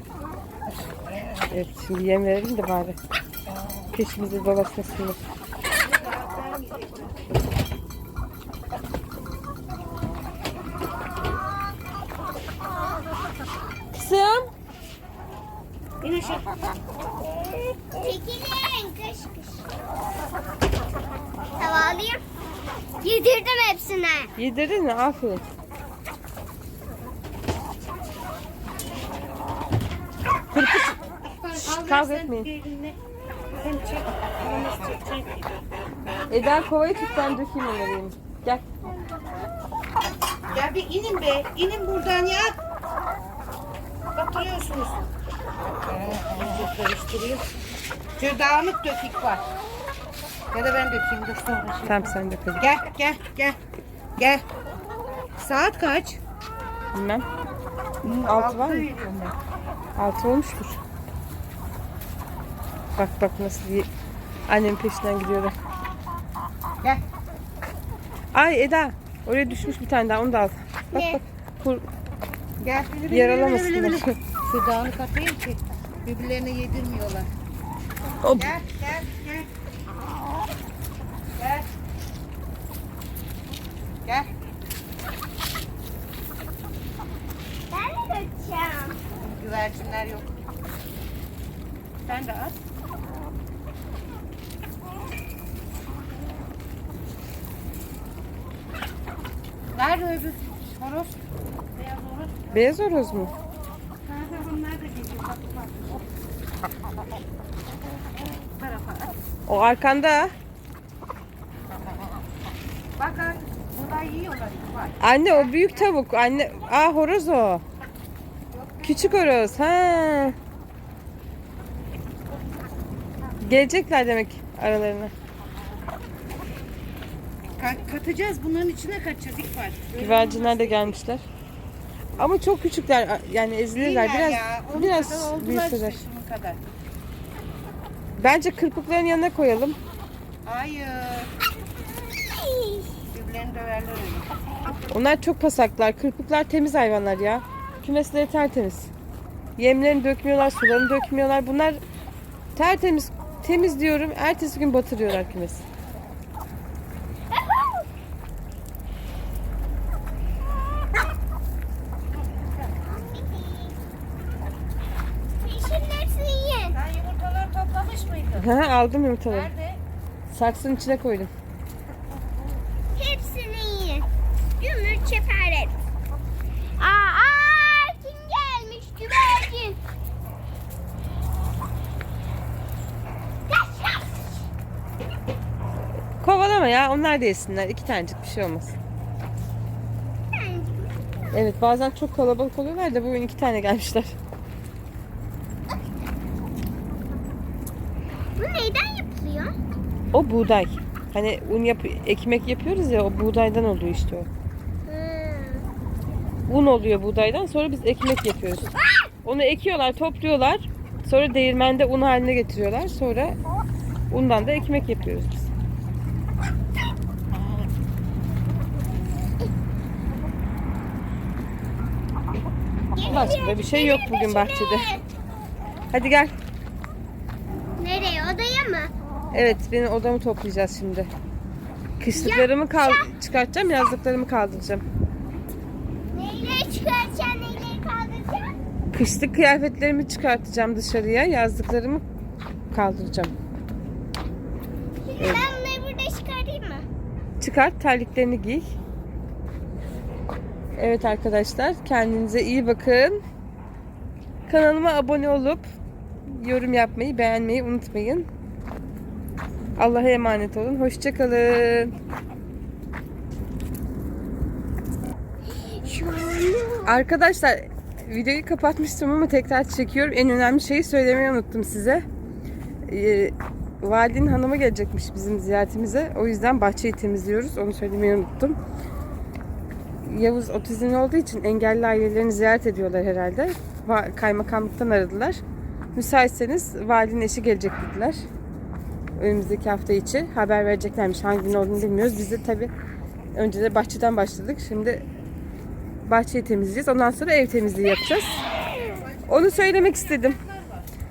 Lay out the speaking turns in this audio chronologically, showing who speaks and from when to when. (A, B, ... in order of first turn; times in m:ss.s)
0:01.5-0:03.0 A
0:03.9-0:05.2 A
0:05.8-0:07.2 B
0:13.9-0:14.5 A
0:16.0-0:16.5 B
0:18.0-0:19.6 C
0:21.6-0:22.2 C
0:23.0-0:24.3 C
0:24.4-0:25.4 A
0:30.5-0:31.0 A
0:31.2-0:33.0 B
0:31.7-0:32.5 A
0:33.5-0:35.5 B
0:36.3-0:38.6 A
0:38.8-0:39.5 C
0:40.5-0:42.6 B
0:44.1-0:45.0 B
0:45.9-0:47.4 B
0:48.2-0:49.4 B
0:50.5-0:53.6 B
0:51.8-0:52.6 A
0:54.2-0:54.4 B
0:55.4-0:56.2 B
0:56.9-0:57.2 A
0:58.0-0:59.4 B
0:58.0-0:58.9 A
1:00.0-1:00.8 A
1:03.0-1:03.9 A
1:04.5-1:05.5 A
1:08.3-1:11.9 A
1:10.9-1:11.2 C
1:12.6-1:17.3 B
1:13.1-1:14.1 A
1:18.2-1:18.5 A
1:18.3-1:19.5 B
1:21.4-1:21.7 B
1:24.0-1:24.3 B
1:27.7-1:29.0 C
1:29.2-1:30.3 B
1:32.0-1:32.6 B
1:39.7-1:41.2 B
1:41.7-1:42.7 B
1:42.5-1:43.3 A
1:44.0-1:46.0 B
1:48.3-1:49.1 B
1:49.5-1:50.3 A
1:53.0-1:55.9 B
1:55.0-1:57.6 A
1:58.5-1:59.3 B
1:58.8-2:00.4 A
2:03.4-2:05.1 A
2:07.6-2:11.0 B
2:10.0-2:11.2 A
2:12.2-2:16.0 A
2:13.8-2:16.6 B
2:18.2-2:19.8 A
2:20.4-2:21.3 B
2:22.1-2:22.9 C
2:23.1-2:24.3 B
2:24.9-2:28.9 A
2:29.6-2:31.8 A
2:32.5-2:35.6 A
2:37.3-2:37.8 C
2:42.4-2:42.7 B
2:42.8-2:43.8 C
2:45.4-2:46.8 C
2:46.7-2:48.5 B
2:48.4-2:49.5 A
2:49.3-2:49.8 B
2:50.3-2:51.3 A
2:52.9-2:54.0 C
2:54.6-2:55.7 C
2:56.8-2:59.8 C
3:03.5-3:04.1 C
3:06.2-3:08.8 A
3:10.3-3:10.9 C
3:11.3-3:14.2 A
3:18.4-3:19.5 C
3:20.1-3:24.3 A
3:24.9-3:25.6 C
3:26.5-3:28.7 A
3:29.2-3:33.4 A
3:34.1-3:35.5 A
3:42.9-3:45.0 C
3:43.1-3:44.9 A
3:45.9-3:46.4 A
3:47.8-3:48.9 C
3:49.3-3:51.1 A
3:52.0-3:54.8 A
3:52.2-3:53.0 C
3:56.1-3:58.6 C
3:58.9-4:02.0 A
4:02.7-4:03.3 A
4:05.1-4:06.9 C
4:05.2-4:05.5 A
4:07.4-4:08.7 A
4:10.8-4:13.2 A
4:14.5-4:15.6 A
4:16.3-4:18.3 A
4:19.8-4:21.9 A
4:25.6-4:27.0 C
4:26.8-4:32.0 A
4:32.9-4:38.6 A
4:40.0-4:45.4 A
4:45.9-4:48.2 A
4:49.2-4:52.7 A
4:53.4-4:55.0 A
4:56.1-4:58.4 A
4:58.8-5:00.9 B
4:59.3-5:00.4 A